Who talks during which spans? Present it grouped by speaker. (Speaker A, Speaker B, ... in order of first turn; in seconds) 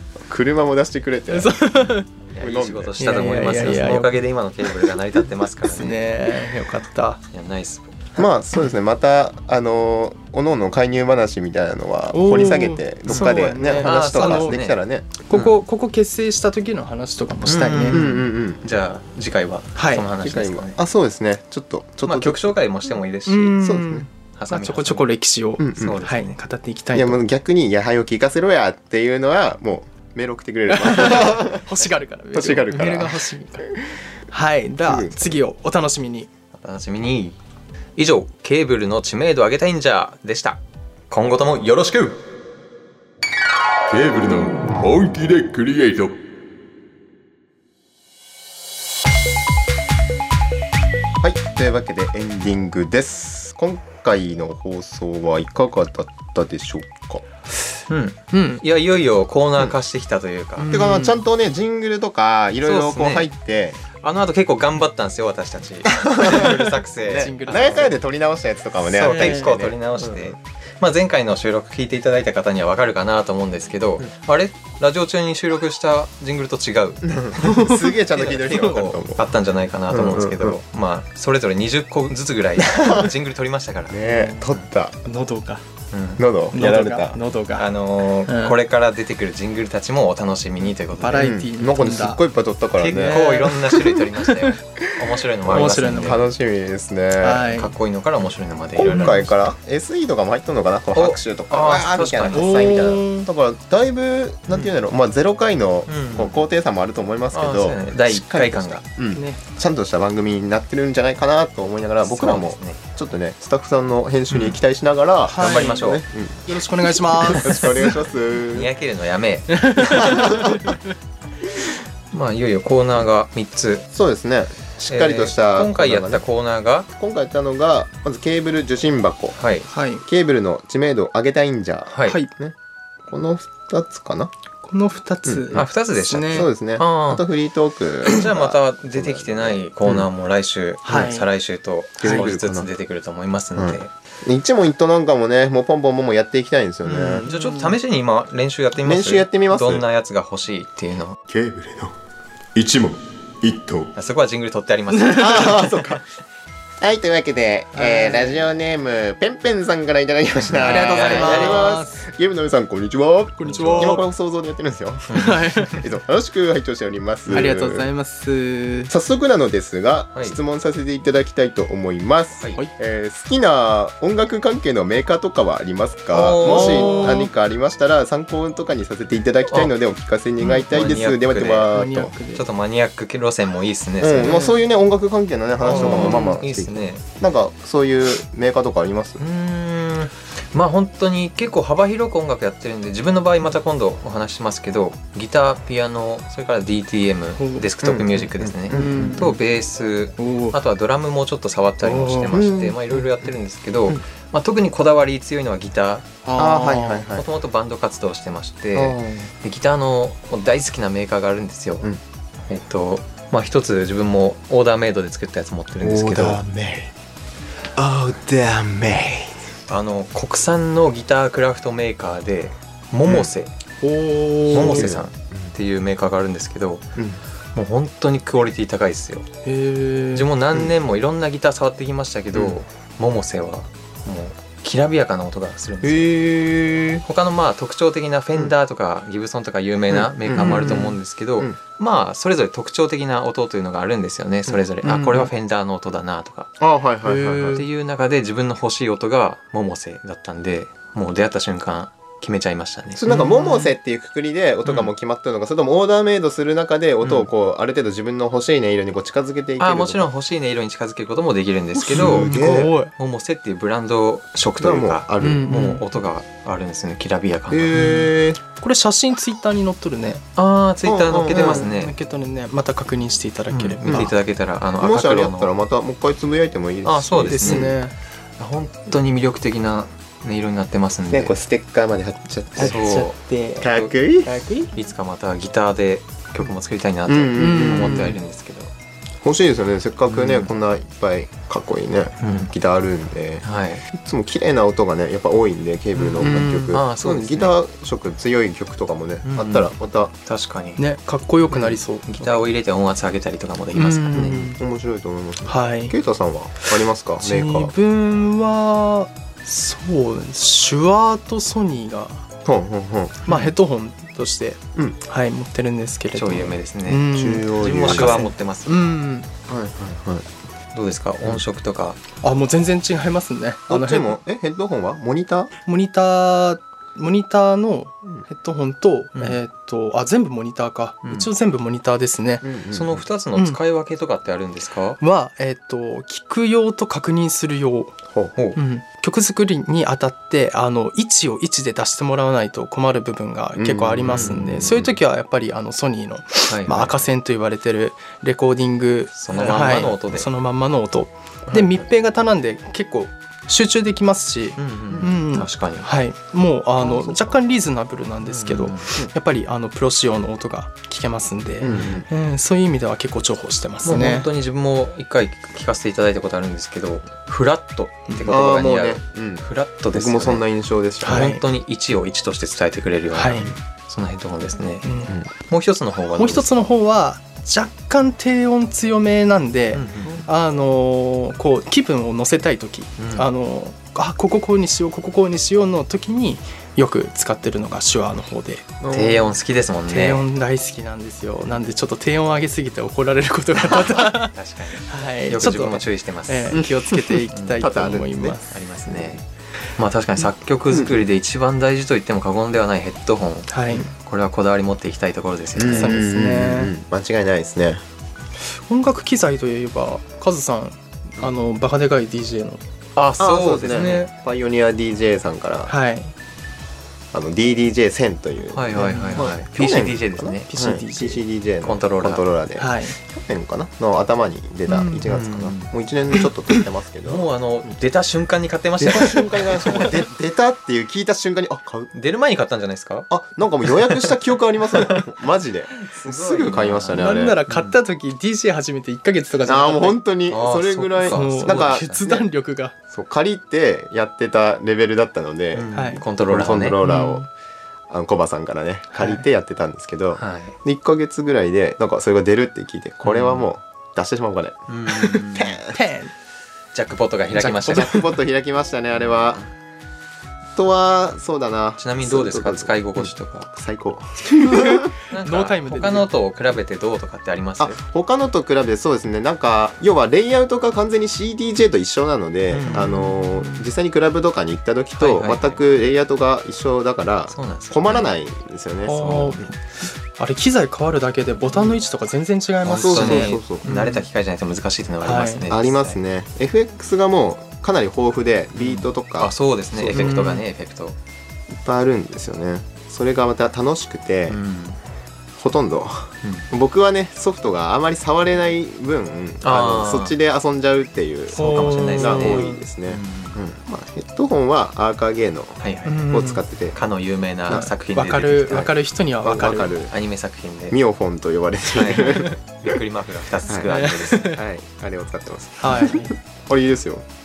Speaker A: 0.3-1.6, 2.4-3.0, 8.2-15.2, 17.9-18.6, 20.2-22.6, 23.6-24.1, 25.6-26.0, 26.9-33.3, 34.8-35.4, 51.2-57.2, 60.7-63.8, 65.9-70.3, 77.0-79.3, 79.9-80.6, 82.7-83.1, 83.9-85.0, 86.2-87.2, 91.2-93.3, 95.5-97.5, 98.8-118.7, 119.9-120.6, 123.9-126.2, 126.9-129.4, 130.0-134.3, 135.3-135.7, 136.3-140.1, 142.0-142.7, 143.6-147.3, 148.8-149.8, 151.3-151.9, 152.6-153.9, 155.1-156.0, 156.8-167.9, 168.9-182.2, 184.0-189.2, 197.8-199.3, 202.3-203.3, 206.4-207.3, 208.8-209.3, 215.8-216.9, 217.8-219.5, 223.0-223.3, 224.5-225.5, 235.8-237.0, 239.9-241.6, 244.5-245.3, 246.6-247.6, 252.9-260.1, 261.9-262.7, 264.6-265.5, 267.5-268.4, 270.8-271.7, 273.9-274.1, 274.8-277.8, 281.1-282.8, 283.6-284.4, 287.1-288.2, 289.2-300.1, 304.1-307.7, 312.4-313.3, 317.1-318.3, 319.5-320.2, 323.7-325.5, 332.4-333.1, 338.1-338.3, 343.6-344.9, 356.8-357.4, 361.6-362.1, 368.3-371.3, 388.8-389.4, 396.5-399.2, 400.7-401.0, 405.6-407.8, 413.2-415.7, 417.1-427.3, 428.8-431.9, 433.1-437.4, 439.4-442.3, 442.9-445.7, 446.3-447.3, 447.9-455.8, 457.4-459.5, 460.6-464.9, 467.6-479.5, 482.6-483.6, 485.5-490.2, 491.5-494.4, 495.4-506.8, 508.5-509.9, 510.7-512.4, 513.5-517.1
Speaker B: 1.3-2.1, 3.0-5.0, 5.6-7.2, 12.1-14.6, 15.3-18.1, 19.8-20.1, 23.3-27.2, 30.7-33.7, 34.3-36.3, 58.3-58.6, 60.6-61.2, 67.1-68.0, 69.0-69.5, 77.4-77.9, 84.0-84.5, 85.0-85.6, 86.5-87.7, 88.3-88.6, 90.9-92.2, 92.9-94.6, 95.5-96.3, 97.2-97.7, 98.8-99.2, 102.3-103.3, 109.1-109.4, 115.3-115.9, 116.5-118.0, 119.5-120.8, 129.7-130.0, 134.7-136.5, 140.8-141.3, 147.2-147.8, 154.9-155.7, 157.7-158.5, 160.6-162.0, 163.4-164.1, 165.1-165.9, 167.3-168.9, 176.4-177.3, 181.7-182.5, 184.2-184.5, 185.6-186.4, 197.4-197.7, 198.7-199.3, 200.2-200.6, 201.8-202.4, 206.2-207.1, 223.8-224.9, 229.4-230.3, 240.4-240.9, 247.0-247.7, 253.1-253.7, 261.8-262.9, 265.2-265.8, 267.7-270.2, 271.3-274.1, 277.3-277.9, 282.6-284.7, 287.4-288.2, 296.2-296.5, 300.8-302.1, 303.8-304.6, 305.5-305.9, 307.2-312.3, 313.3-319.3, 322.2-324.2, 325.7-332.4, 333.4-333.6, 335.0-338.0, 338.6-364.3, 368.1-368.4, 371.0-371.4, 373.1-373.5, 374.8-375.1, 376.2-388.7, 389.9-398.6, 403.5-403.9, 405.7-406.7, 408.7-412.6, 413.7-414.1, 415.7-416.1, 418.8-419.3, 420.5-421.2, 422.6-423.0, 424.7-425.1, 437.0-440.0, 441.1-442.8, 445.7-446.0, 446.8-447.3, 448.9-449.2, 455.4-456.1, 457.4-458.1, 464.4-466.1, 472.6-473.7, 478.9-479.5, 480.2-484.1, 485.0-485.4, 489.9-490.4, 501.4-502.6, 505.9-506.4, 507.5-509.7, 513.7-514.4, 515.6-516.1
Speaker C: 2.3-6.0, 7.3-8.1, 13.1-14.8, 17.5-20.8, 22.1-23.6, 24.4-25.1, 25.8-26.4, 36.5-37.4, 38.0-40.6, 41.1-42.2, 57.9-60.7, 62.6-63.3, 64.0-67.9, 68.9-77.6, 78.1-84.0, 85.9-86.2, 87.5-91.3, 92.8-96.3, 97.5-99.3, 100.9-102.8, 105.9-106.4, 107.3-108.8, 112.0-112.8, 114.3-114.6, 115.3-116.0, 118.5-120.4, 122.1-123.9, 124.9-126.9, 129.4-129.7, 131.9-132.2, 135.5-137.3, 138.0-143.9, 146.8-151.2, 153.9-155.7, 160.5-161.8, 163.4-164.0, 165.1-165.6, 176.1-177.3, 180.4-181.7, 182.3-184.5, 185.6-187.1, 189.2-206.1, 207.1-211.9, 212.5-216.4, 219.7-223.5, 224.5-226.9, 227.5-229.3, 230.1-236.3, 237.0-246.5, 247.5-253.0, 254.7-254.9, 257.0-257.3, 259.6-267.8, 270.4-271.9, 273.5-275.5, 276.8-277.8, 278.4-281.4, 282.6-283.9, 284.7-288.7, 290.1-290.5, 292.2-292.5, 293.4-293.8, 295.9-297.6, 299.2-299.7, 300.2-300.8, 301.5-304.5, 316.1-318.9, 320.7-322.0, 332.7-335.0, 344.1-344.7, 346.5-347.1, 349.2-350.3, 354.6-355.9, 358.2-358.9, 361.6-362.0, 363.8-370.4, 371.0-374.9, 375.4-376.6, 379.7-380.2, 383.0-383.3, 388.9-390.2, 393.7-396.7, 397.3-399.2, 399.8-406.0, 413.0-414.1, 418.5-420.5, 421.6-422.2, 425.1-425.7, 427.1-429.9, 431.9-433.1, 434.8-435.0, 435.8-437.8, 440.3-442.1, 445.5-446.8, 450.2-450.6, 453.0-453.5, 454.7-455.6, 456.7-458.0, 461.8-463.5, 465.1-467.8, 472.5-472.9, 475.0-475.6, 477.3-478.1, 479.0-479.4, 482.7-486.0, 488.6-491.0, 494.3-494.8, 499.4-500.2, 501.3-503.4, 505.6-506.1, 506.7-508.7, 509.9-510.8, 511.7-514.4
Speaker D: 43.9-46.1